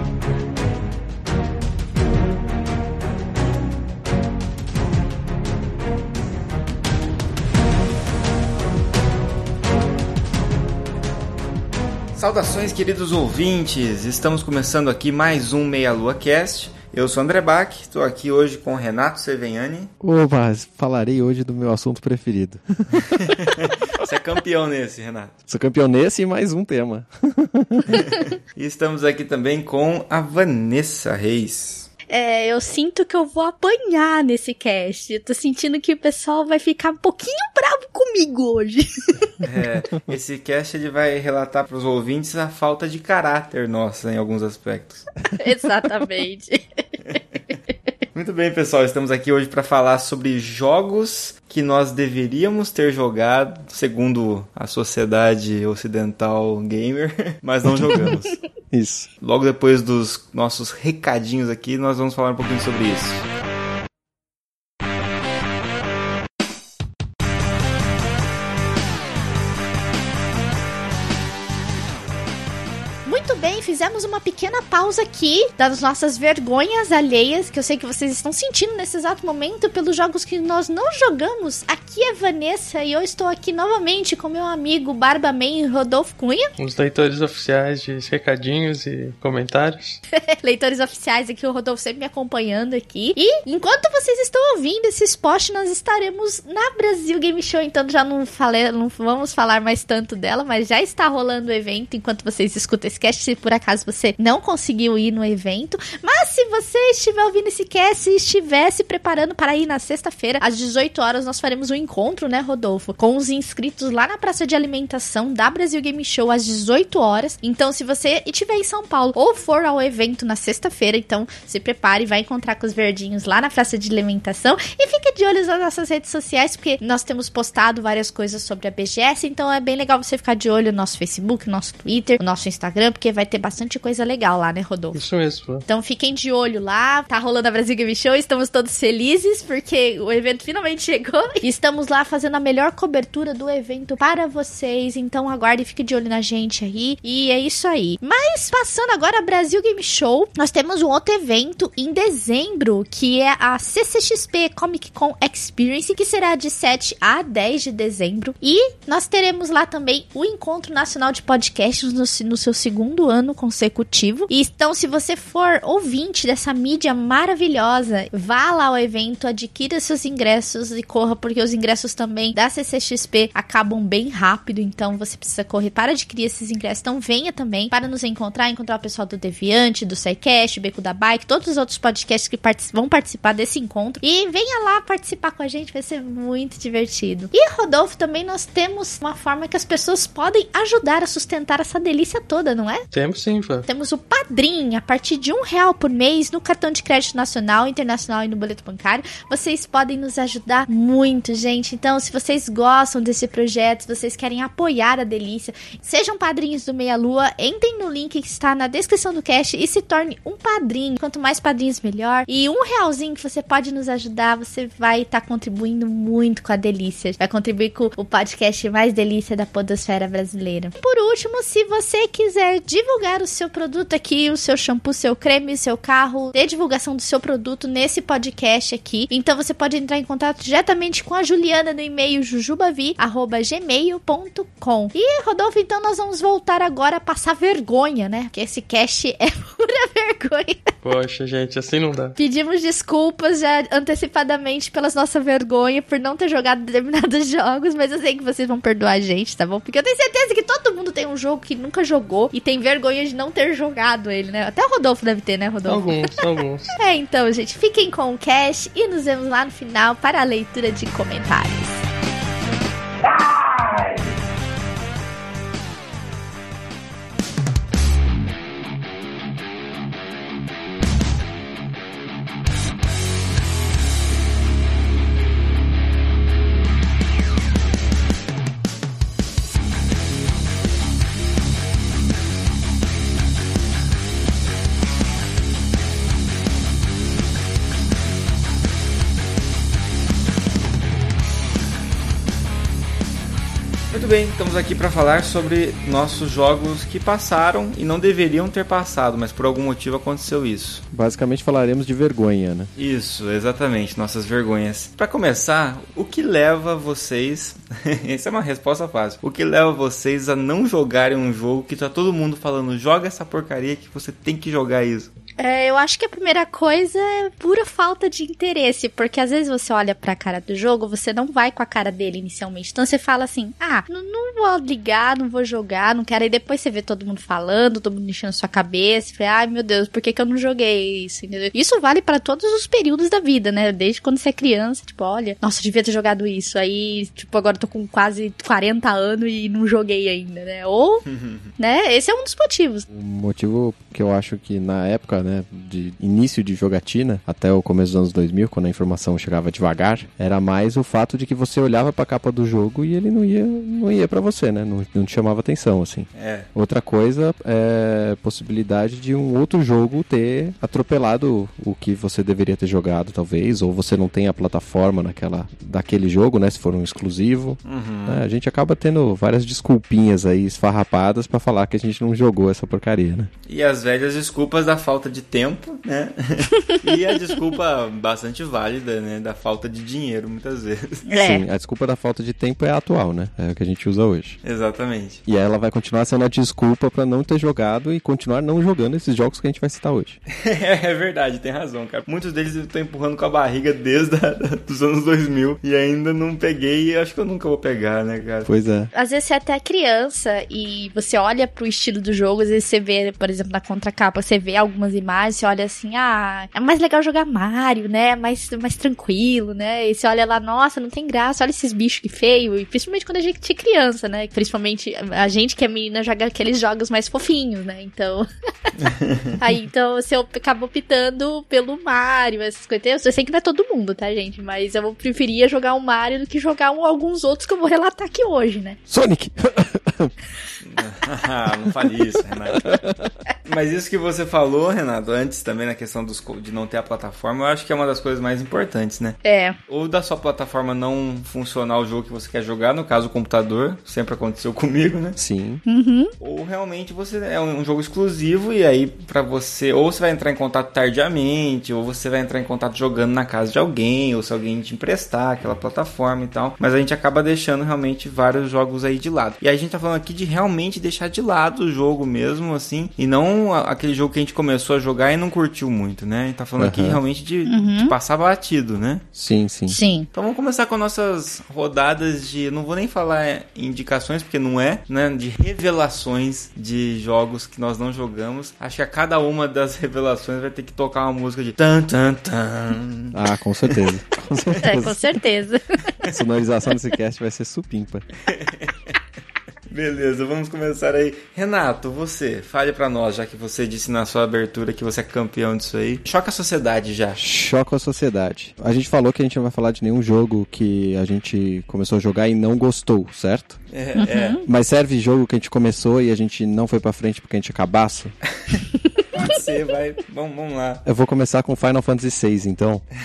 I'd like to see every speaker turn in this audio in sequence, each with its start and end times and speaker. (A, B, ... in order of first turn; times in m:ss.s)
0:12.1-0:19.9 A
0:20.0-0:23.8 B
0:23.0-0:25.3 A
0:25.5-0:28.1 B
0:27.9-0:31.9 A
0:32.1-0:39.3 C
0:39.4-0:45.1 A
0:45.3-0:46.6 C
0:48.1-0:58.4 A
0:57.7-0:58.0 B
0:58.7-0:59.1 B
0:59.2-1:03.2 A
1:13.0-1:26.5 C
1:26.6-1:30.0 D
1:30.3-2:15.0 C
2:14.9-2:15.6 D
2:15.7-3:12.8 C
3:12.9-3:13.6 D
3:13.7-4:00.6 C
4:00.8-4:02.2 D
4:02.2-4:16.1 C
4:15.6-4:16.7 D
4:16.8-4:21.8 C
4:53.9-5:00.8 A
5:00.9-5:02.7 B
5:02.8-5:15.1 A
5:15.4-5:41.0 C
5:41.1-5:41.5 A
5:41.6-5:42.8 C
5:42.9-6:13.3 B
5:56.1-5:56.5 A
6:07.6-6:08.2 A
6:13.5-6:21.1 A
6:21.0-6:21.4 C
6:21.2-6:24.4 B
6:24.4-6:25.2 A
6:25.3-6:30.2 B
6:30.3-6:38.5 A
6:38.4-6:38.9 B
6:38.9-6:58.7 C
6:59.4-7:08.8 C
7:08.9-7:10.1 B
7:10.6-7:12.8 A
7:13.4-7:25.2 A
7:19.2-7:19.6 C
7:25.2-7:25.6 B
7:25.6-7:26.1 C
7:26.2-7:49.0 A
7:46.6-7:47.0 B
7:47.4-7:47.9 C
7:49.1-7:49.8 B
7:49.7-7:50.1 C
7:50.1-8:03.8 A
8:03.1-8:05.0 B
8:04.6-8:05.8 C
8:06.0-8:08.1 B
8:08.3-8:08.9 A
8:09.7-8:17.2 A
8:17.2-8:23.6 B
8:23.7-8:24.4 A
8:24.0-8:24.4 C
8:24.4-8:28.1 B
8:29.1-8:30.8 A
8:30.8-8:32.8 B